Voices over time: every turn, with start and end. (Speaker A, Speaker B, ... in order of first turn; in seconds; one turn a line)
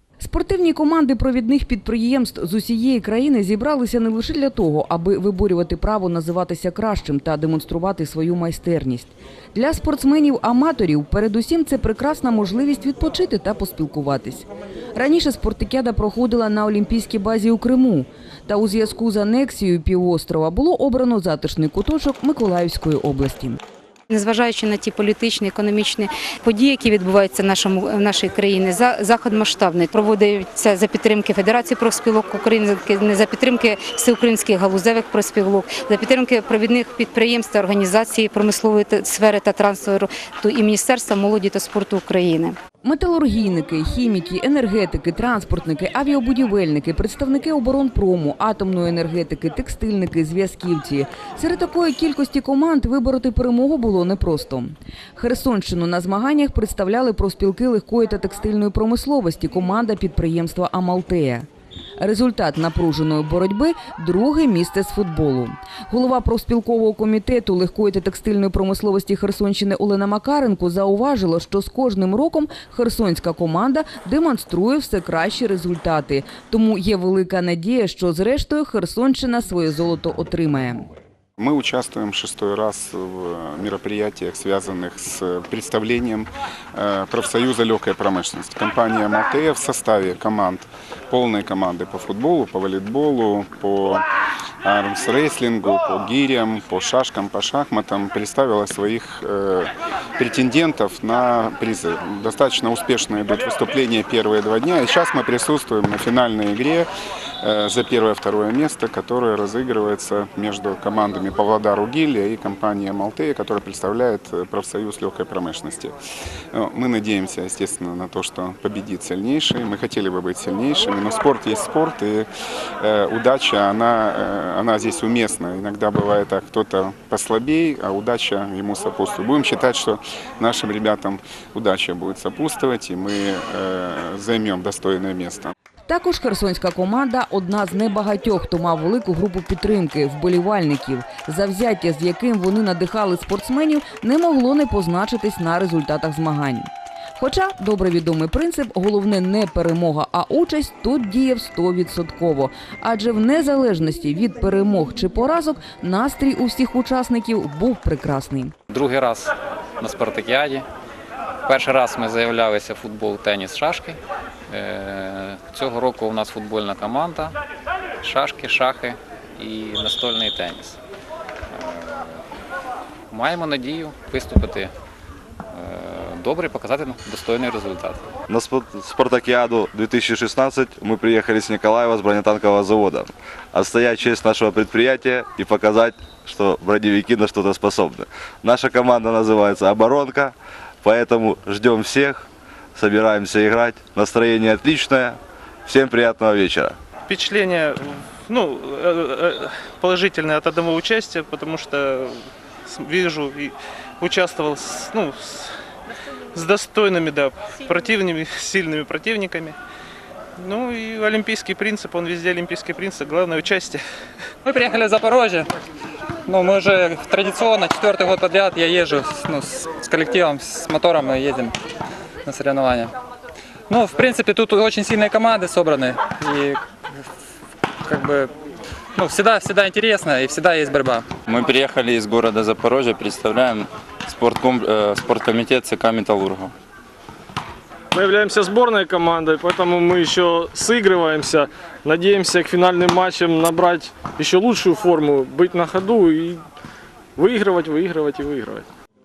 Speaker A: 0.2-23.6
Speaker B: 24.1-42.6
Speaker A: 42.8-61.5
Speaker A: 62.0-80.9
Speaker C: 81.4-94.0
Speaker C: 94.6-106.9
Speaker C: 107.4-116.0
Speaker C: 116.5-122.3
Speaker C: 122.8-135.5
Speaker A: 135.9-158.5
Speaker D: 158.7-160.7
Speaker D: 161.5-164.0
Speaker D: 164.5-167.3
Speaker D: 168.0-170.8
Speaker D: 171.5-172.2
Speaker D: 173.1-174.7
Speaker D: 175.5-178.0
Speaker E: 178.3-196.8
Speaker F: 197.1-202.1
Speaker F: 202.7-205.5
Speaker F: 206.3-209.6
Speaker F: 210.4-213.8
Speaker G: 214.5-215.5
Speaker G: 216.3-221.6
Speaker G: 222.2-222.9
Speaker G: 223.7-226.7
Speaker G: 227.8-228.3
Speaker G: 228.9-231.1
Speaker H: 231.2-236.5
Speaker I: 237.9-246.4
Speaker I: 247.2-248.7